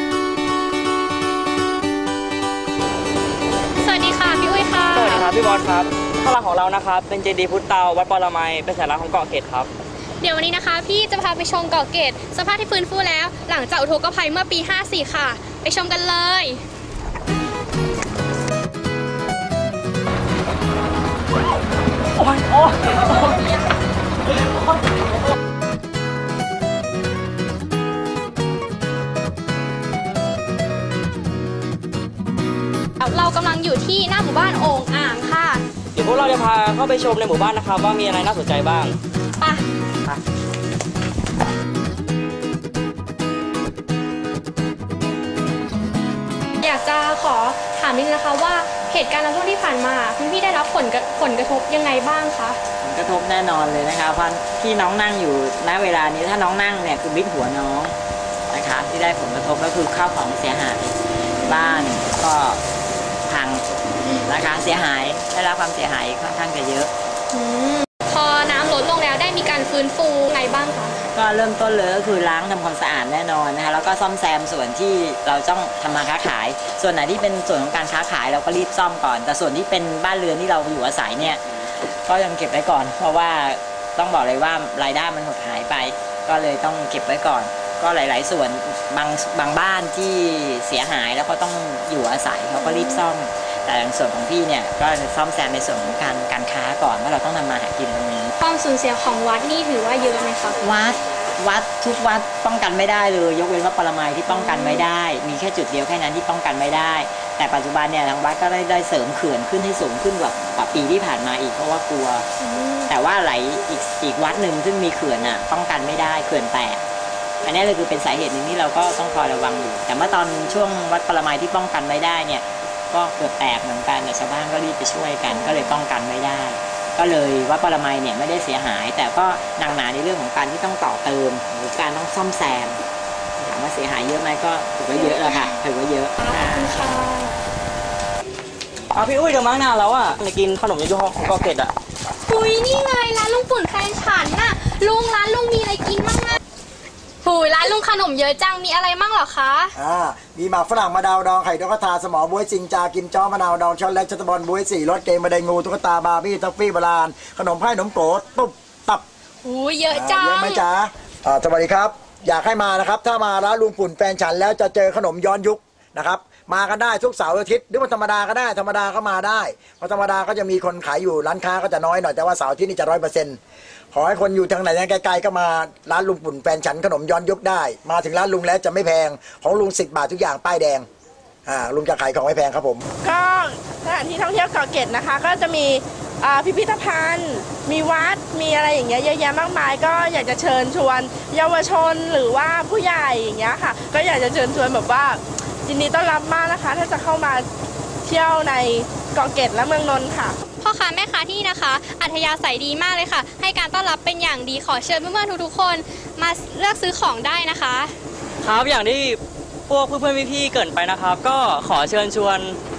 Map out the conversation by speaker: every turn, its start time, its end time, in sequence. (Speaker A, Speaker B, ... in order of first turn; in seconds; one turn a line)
Speaker A: 3.8-5.2
Speaker B: 4.9-9.7
Speaker A: 10.2-16.6
Speaker A: 33.0-35.6
Speaker B: 35.9-39.0
Speaker A: 46.6-52.6
Speaker C: 52.8-57.9
Speaker C: 58.5-62.6
Speaker C: 63.2-63.6
Speaker C: 64.3-66.9
Speaker A: 67.3-71.0
Speaker C: 71.1-98.3
Speaker A: 92.6-93.0
Speaker A: 98.4-100.6
Speaker C: 100.6-112.2
Speaker A: 104.3-104.8
Speaker A: 112.4-112.9
Speaker C: 112.9-116.8
Speaker C: 117.4-132.8
Speaker A: 125.3-125.7
Speaker C: 133.4-136.9
Speaker A: 134.9-135.6
Speaker A: 136.2-137.4
Speaker B: 138.9-141.7
Speaker A: 142.3-146.4
Speaker A: 147.2-149.7
Speaker D: 149.7-159.0
Speaker A: 159.4-160.6
Speaker D: 159.9-173.4
Speaker D: 173.9-180.8
Speaker D: 181.5-182.8
Speaker E: 183.0-197.5
Speaker E: 198.0-200.4
Speaker A: 200.6-207.9
Speaker B: 208.4-212.6